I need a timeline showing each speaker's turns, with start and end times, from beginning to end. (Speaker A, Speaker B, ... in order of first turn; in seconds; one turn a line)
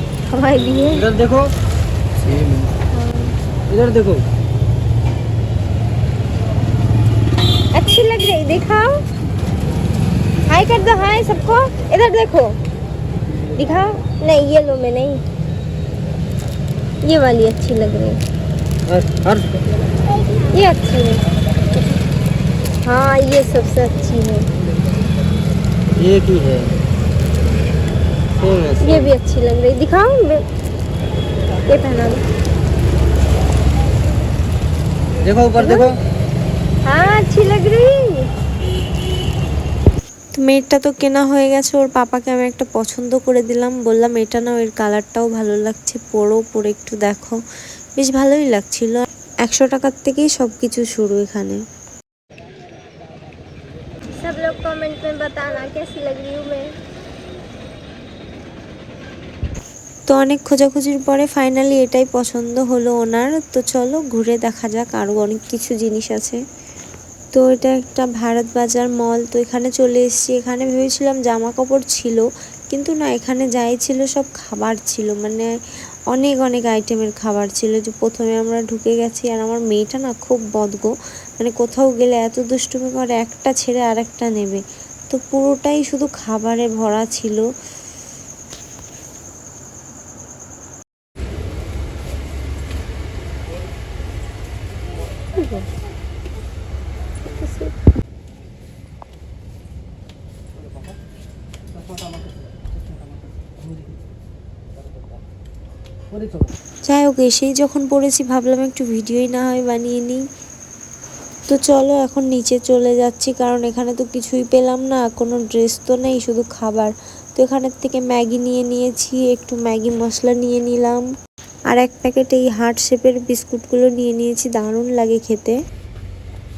Speaker A: 0.3-1.1
Speaker B: 1.2-1.5
Speaker A: 2.9-3.4
Speaker B: 3.7-4.2
Speaker A: 7.7-9.0
Speaker A: 10.5-12.6
Speaker A: 13.5-15.2
Speaker A: 17.0-18.2
Speaker B: 18.9-19.4
Speaker A: 20.4-21.2
Speaker A: 22.8-24.5
Speaker B: 26.0-26.7
Speaker B: 28.4-28.8
Speaker A: 28.8-30.4
Speaker A: 31.7-32.2
Speaker B: 35.2-35.8
Speaker A: 35.6-35.9
Speaker A: 36.9-38.3
Speaker C: 40.4-47.4
Speaker C: 48.0-51.6
Speaker A: 54.1-56.7
Speaker C: 60.1-66.4
Speaker C: 67.3-75.5
Speaker C: 76.1-87.5
Speaker A: 95.4-95.7
Speaker A: 97.4-97.7
Speaker C: 106.9-110.2
Speaker C: 111.5-121.0
Speaker C: 121.7-125.6